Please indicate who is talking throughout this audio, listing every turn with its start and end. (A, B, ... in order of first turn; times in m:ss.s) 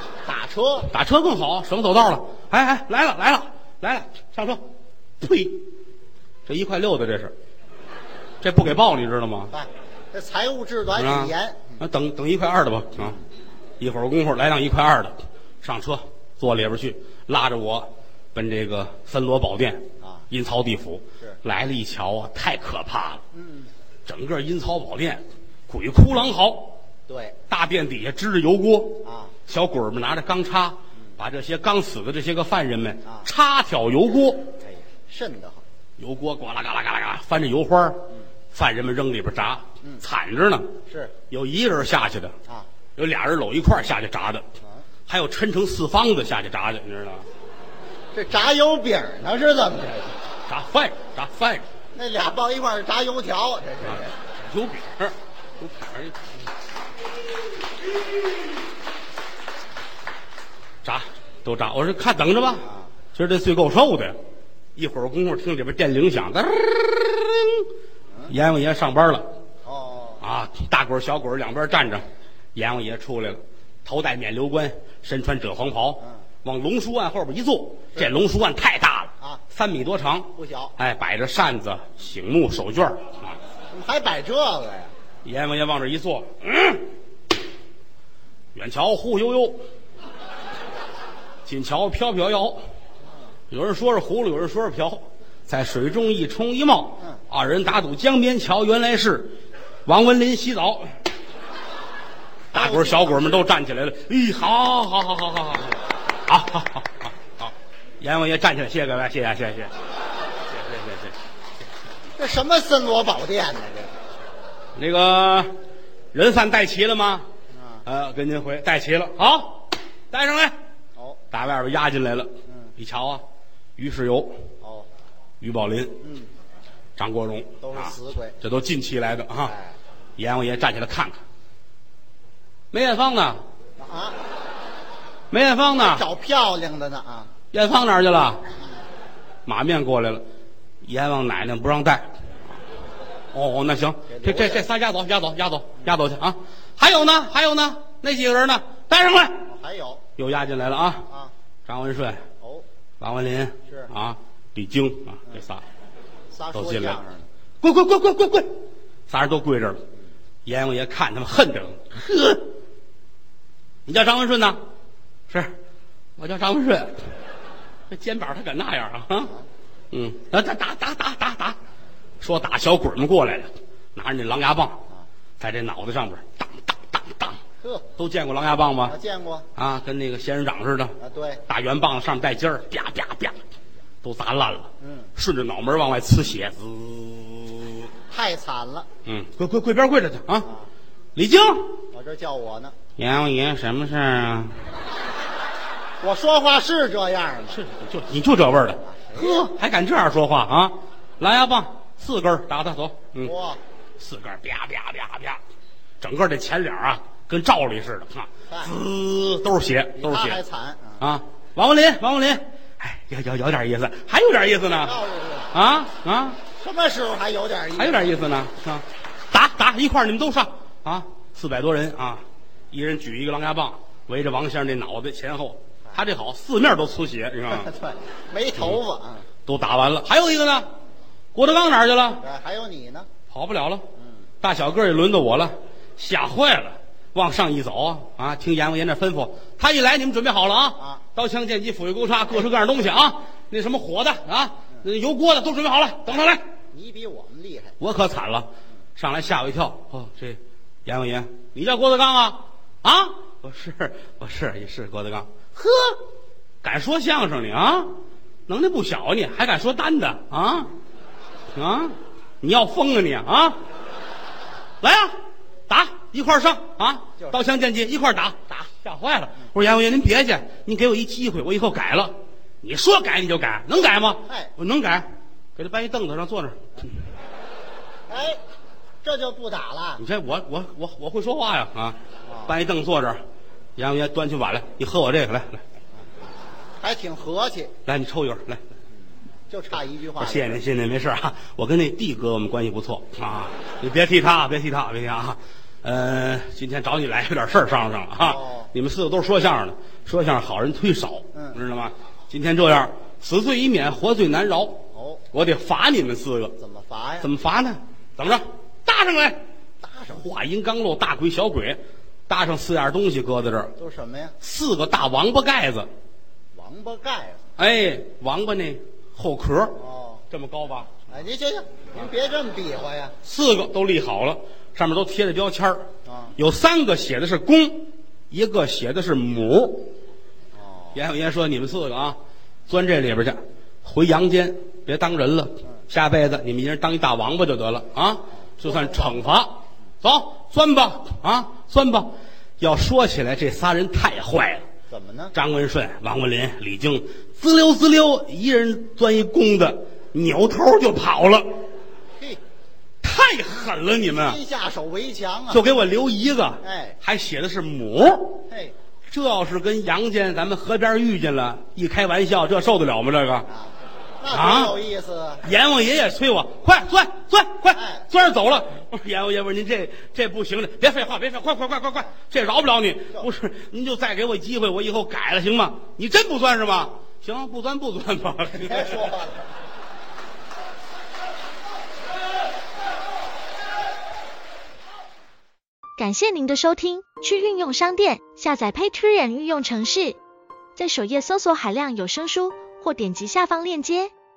0:00.2-0:00.9 A
0:00.9-0:04.6 B
0:05.2-0:05.6 B
0:06.4-0:07.3 B
0:08.4-0:09.5 B
0:09.5-0:11.8 A
0:11.0-0:13.2 B
0:13.8-0:23.2 B
0:20.0-0:20.3 A
0:23.3-0:23.7 A
0:24.1-0:26.8 B
0:27.1-0:27.4 A
0:27.5-0:34.5 B
0:29.0-0:29.4 A
0:34.6-0:35.6 A
0:36.0-0:40.8 B
0:40.9-0:41.1 A
0:41.3-0:42.4 B
0:43.0-0:44.4 B
0:45.1-0:47.3 B
0:48.1-0:50.2 A
0:50.5-0:51.6 B
0:51.9-0:54.1 A
0:53.9-0:56.3 B
1:00.8-1:04.2 B
1:02.6-1:02.9 A
1:04.8-1:07.7 B
1:08.3-1:09.3 B
1:09.6-1:10.2 A
1:10.2-1:23.4 B
1:20.4-1:20.8 A
1:23.7-1:24.9 A
1:25.2-1:26.9 B
1:28.6-1:29.6 B
1:31.4-1:32.6 B
1:33.5-1:41.0 B
1:42.5-1:43.4 A
1:42.5-1:49.7 B
1:50.5-1:51.1 B
1:52.2-1:53.9 A
1:54.8-1:55.5 B
1:56.1-1:57.3 B
1:57.5-1:57.9 A
1:57.8-2:00.6 B
2:01.3-2:03.2 B
2:02.5-2:02.7 A
2:03.8-2:04.4 B
2:04.6-2:04.9 A
2:05.4-2:06.0 B
2:06.0-2:06.3 A
2:07.0-2:09.6 B
2:07.6-2:08.4 A
2:09.4-2:09.8 A
2:10.2-2:11.2 B
2:12.7-2:13.4 B
2:13.8-2:14.2 A
2:15.3-2:16.0 B
2:15.7-2:17.3 A
2:17.5-2:18.5 B
2:19.4-2:20.2 B
2:20.8-2:22.1 B
2:23.3-2:29.5 B
2:24.1-2:24.7 A
2:29.4-2:30.0 A
2:30.2-2:31.1 B
2:31.6-2:32.3 B
2:32.4-2:32.6 A
2:33.0-2:35.6 B
2:36.3-2:37.3 A
2:36.5-2:37.0 B
2:37.6-2:38.5 B
2:39.1-2:39.8 B
2:40.4-2:42.6 B
2:43.9-2:44.6 B
2:45.3-2:45.6 B
2:46.2-2:47.1 B
2:47.9-2:49.3 B
2:49.9-2:51.6 B
2:52.2-2:54.8 B
2:55.4-2:57.4 B
2:57.6-2:57.9 A
2:58.0-2:59.0 B
2:58.8-2:59.5 A
2:59.6-3:03.4 B
3:01.0-3:01.4 A
3:04.0-3:07.9 B
3:04.8-3:05.1 A
3:08.1-3:08.9 A
3:09.1-3:10.5 B
3:11.2-3:11.7 B
3:11.9-3:12.8 A
3:13.0-3:14.6 B
3:16.0-3:17.6 A
3:17.5-3:23.3 B
3:18.8-3:19.5 A
3:23.2-3:23.6 A
3:24.0-3:25.4 B
3:26.0-3:30.4 B
3:28.5-3:28.7 A
3:30.0-3:31.0 A
3:31.0-3:35.0 B
3:34.8-3:35.6 A
3:35.5-3:36.4 B
3:36.4-3:38.3 A
3:37.8-3:47.7 B
3:47.5-3:49.3 A
3:49.4-3:50.7 B
3:51.4-3:52.2 B
3:52.2-3:53.1 A
3:53.3-3:53.8 B
3:54.0-3:54.2 A
3:54.4-4:06.4 B
4:06.7-4:07.8 A
4:07.8-4:16.0 B
4:16.6-4:18.0 B
4:18.5-4:20.7 B
4:21.5-4:23.6 B
4:24.8-4:25.2 B
4:25.7-4:36.9 B
4:34.2-4:34.5 A
4:38.1-4:38.4 A
4:39.0-4:40.0 A
4:40.0-4:43.2 B
4:42.3-4:42.5 A
4:43.8-4:45.6 B
4:46.8-4:47.8 A
4:47.8-4:48.6 B
4:49.5-4:50.6 A
4:50.2-5:06.6 B
4:58.2-4:58.7 A
5:04.9-5:05.2 A
5:06.6-5:07.3 A
5:07.2-5:09.4 B
5:09.8-5:10.2 A
5:10.1-5:13.7 B
5:13.8-5:14.4 A
5:14.4-5:15.9 B
5:16.5-5:17.4 A
5:17.6-5:20.9 B
5:19.8-5:20.2 A
5:21.1-5:23.2 A
5:23.2-5:29.9 B
5:26.0-5:26.4 A
5:30.5-5:31.0 A
5:30.9-5:32.2 B
5:32.7-5:44.6 B
5:38.6-5:39.3 A
5:44.9-5:45.3 A
5:45.3-5:51.5 B
5:53.0-5:54.4 B
5:54.1-5:55.6 A
5:55.5-5:58.4 B
5:56.6-5:57.0 A
5:59.1-6:03.5 B
6:03.5-6:05.4 A
6:04.3-6:04.8 B
6:05.4-6:19.1 B
6:07.7-6:08.1 A
6:18.5-6:19.5 A
6:26.0-6:30.2 C
6:30.8-6:34.1 C